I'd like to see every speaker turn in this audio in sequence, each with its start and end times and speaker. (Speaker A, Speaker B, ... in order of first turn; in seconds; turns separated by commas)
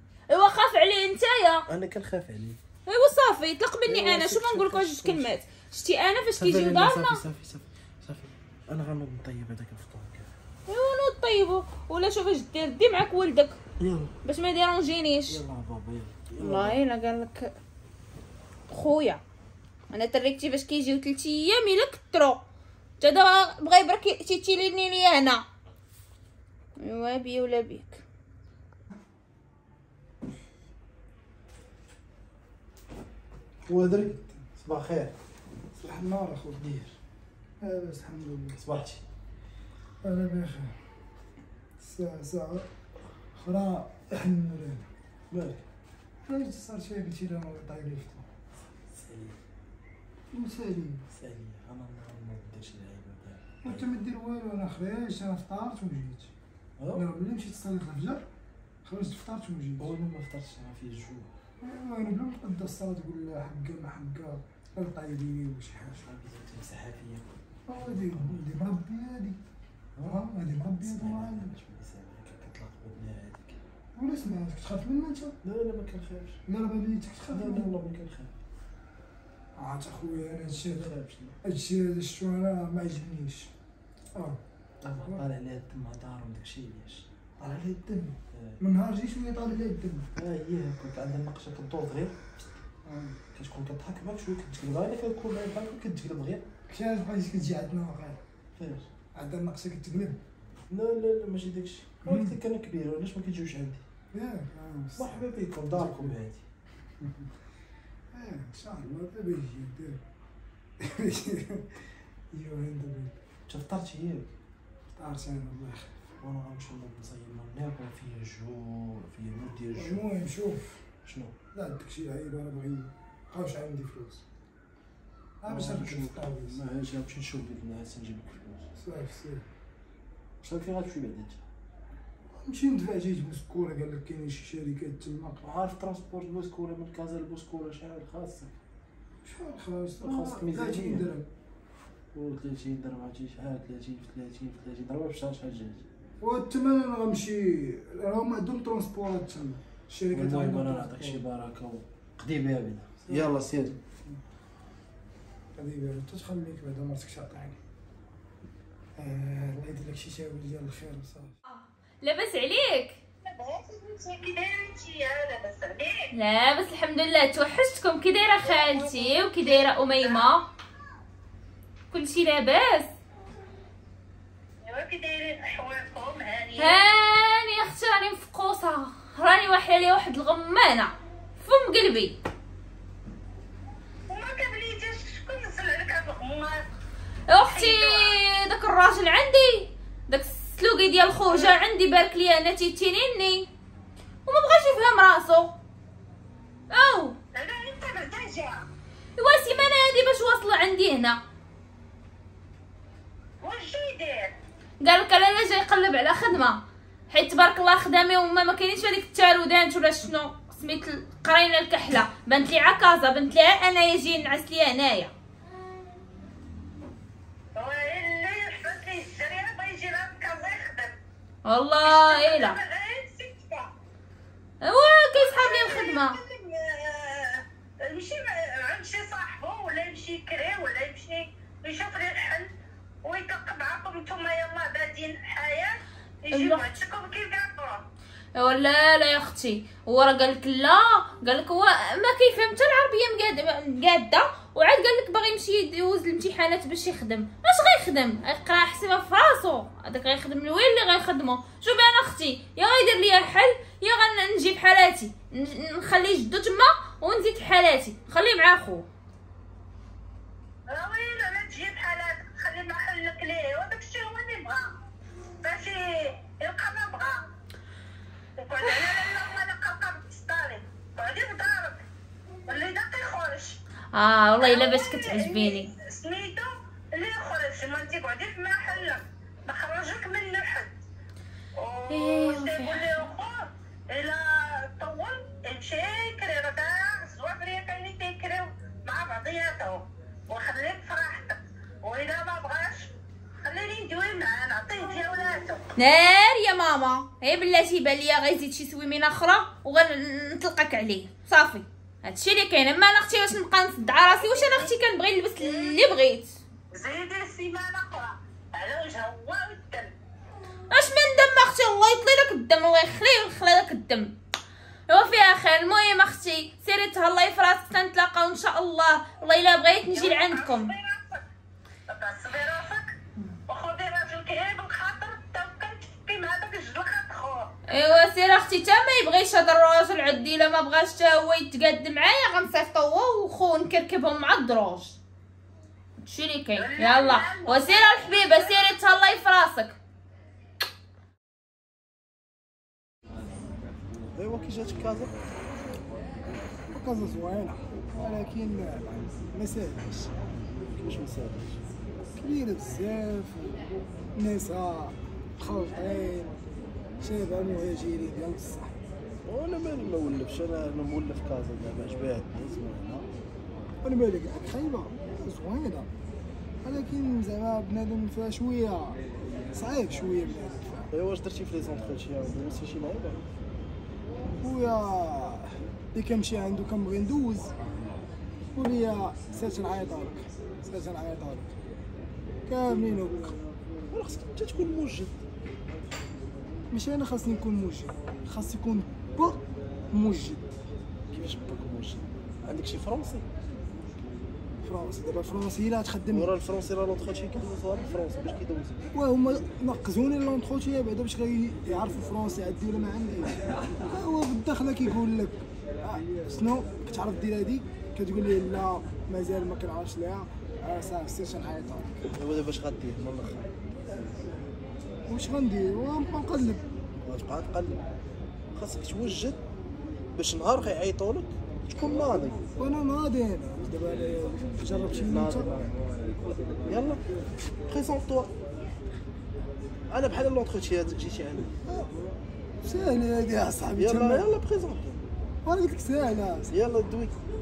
Speaker A: 0.3-1.6, Speaker B: 1.7-2.6, Speaker A: 2.9-7.2, Speaker B: 3.9-5.3, Speaker B: 6.4-10.3, Speaker A: 10.7-13.6, Speaker B: 13.8-14.1, Speaker A: 14.2-15.4, Speaker B: 15.3-16.8, Speaker A: 16.4-17.5, Speaker A: 18.7-19.2, Speaker A: 19.9-22.4, Speaker A: 23.0-25.4, Speaker A: 26.8-28.0, Speaker B: 33.6-35.1, Speaker C: 35.8-36.6, Speaker B: 36.6-37.0, Speaker C: 37.6-38.6, Speaker B: 38.6-39.0, Speaker C: 40.0-40.9, Speaker C: 41.8-42.7, Speaker C: 43.4-44.9, Speaker B: 45.3-45.6, Speaker C: 46.3-48.3, Speaker B: 48.9-49.4, Speaker C: 50.3-51.1, Speaker B: 51.1-53.9, Speaker C: 53.6-56.3, Speaker B: 56.8-57.0, Speaker C: 56.9-58.3, Speaker C: 58.9-59.9, Speaker B: 59.8-61.3, Speaker C: 61.6-66.0, Speaker B: 66.0-68.4, Speaker C: 67.7-69.4, Speaker B: 70.0-73.6, Speaker C: 70.0-71.6, Speaker C: 74.0-75.4, Speaker B: 75.4-76.4, Speaker C: 76.5-77.7, Speaker B: 77.3-78.3, Speaker C: 79.6-80.9, Speaker B: 80.6-81.4, Speaker C: 81.4-83.5, Speaker C: 84.2-84.4, Speaker B: 84.8-87.1, Speaker C: 85.0-85.3, Speaker C: 87.4-90.1, Speaker B: 88.3-88.6, Speaker B: 90.2-92.6, Speaker C: 92.8-93.2, Speaker B: 93.3-96.5, Speaker C: 96.7-98.2, Speaker B: 98.6-98.9, Speaker C: 99.1-100.2, Speaker B: 100.7-103.8, Speaker C: 102.0-102.4, Speaker C: 104.1-106.2, Speaker B: 105.0-106.4, Speaker C: 107.0-107.3, Speaker C: 108.1-110.0, Speaker C: 110.8-113.2, Speaker B: 113.5-114.3, Speaker C: 115.0-115.9, Speaker B: 116.2-120.0, Speaker C: 119.8-120.8, Speaker B: 121.0-121.3, Speaker C: 121.5-124.2, Speaker C: 125.4-126.6, Speaker B: 125.5-128.7, Speaker C: 128.8-129.4, Speaker B: 130.4-131.4, Speaker C: 132.3-135.4, Speaker B: 135.4-138.6, Speaker C: 139.2-141.3, Speaker B: 140.0-141.1, Speaker B: 142.1-145.8, Speaker C: 146.2-151.2, Speaker B: 150.1-153.8, Speaker C: 153.1-154.2, Speaker C: 155.6-157.6, Speaker C: 159.0-161.3, Speaker A: 161.5-163.0, Speaker D: 163.2-166.1, Speaker A: 166.1-170.5, Speaker D: 168.4-170.3, Speaker A: 171.9-172.9, Speaker D: 174.7-176.8, Speaker A: 176.6-182.2, Speaker D: 184.1-186.6, Speaker A: 187.3-193.5, Speaker D: 187.5-188.2, Speaker D: 191.3-191.6, Speaker A: 194.3-195.6, Speaker A: 196.7-197.2, Speaker D: 197.3-198.6, Speaker A: 199.2-201.2, Speaker D: 203.4-204.4, Speaker A: 204.8-215.1, Speaker D: 217.6-221.0, Speaker A: 221.4-222.6, Speaker D: 221.8-223.7, Speaker A: 224.6-226.2, Speaker D: 225.2-232.5, Speaker D: 233.0-237.8, Speaker A: 236.3-236.8, Speaker A: 238.4-258.9, Speaker D: 260.7-264.7, Speaker D: 265.4-267.2, Speaker D: 268.4-271.8, Speaker D: 272.5-273.6, Speaker A: 273.9-275.7, Speaker D: 274.4-280.8, Speaker D: 281.6-295.6, Speaker A: 281.9-283.1, Speaker A: 295.8-306.4, Speaker D: 304.1-304.7, Speaker D: 305.4-305.8, Speaker D: 306.7-309.9, Speaker A: 310.7-314.2, Speaker A: 314.9-320.7, Speaker D: 319.9-321.2, Speaker D: 321.9-322.9, Speaker D: 323.5-327.5, Speaker A: 327.7-335.0, Speaker A: 336.0-339.8, Speaker D: 336.6-338.7, Speaker B: 344.1-345.2, Speaker C: 346.7-350.1, Speaker B: 350.7-351.6, Speaker C: 352.2-353.6, Speaker C: 354.1-356.4, Speaker C: 357.0-358.9, Speaker B: 359.2-363.1, Speaker C: 363.8-365.9, Speaker C: 366.6-369.0, Speaker C: 369.5-370.9, Speaker B: 370.9-373.2, Speaker C: 374.3-377.5, Speaker C: 378.6-381.6, Speaker C: 382.5-383.5, Speaker B: 383.9-385.1, Speaker C: 386.7-390.5, Speaker B: 391.1-393.3, Speaker C: 394.6-396.3, Speaker B: 396.1-398.9, Speaker C: 398.9-412.1, Speaker B: 412.2-413.5, Speaker C: 415.1-416.6, Speaker B: 417.0-417.9, Speaker B: 418.5-419.4, Speaker B: 420.1-422.4, Speaker C: 422.6-425.7, Speaker B: 425.0-425.8, Speaker B: 426.7-427.0, Speaker B: 427.7-428.3, Speaker B: 429.9-431.5, Speaker C: 431.7-431.9, Speaker C: 432.6-434.3, Speaker B: 433.8-435.0, Speaker C: 435.4-436.5, Speaker B: 436.5-437.2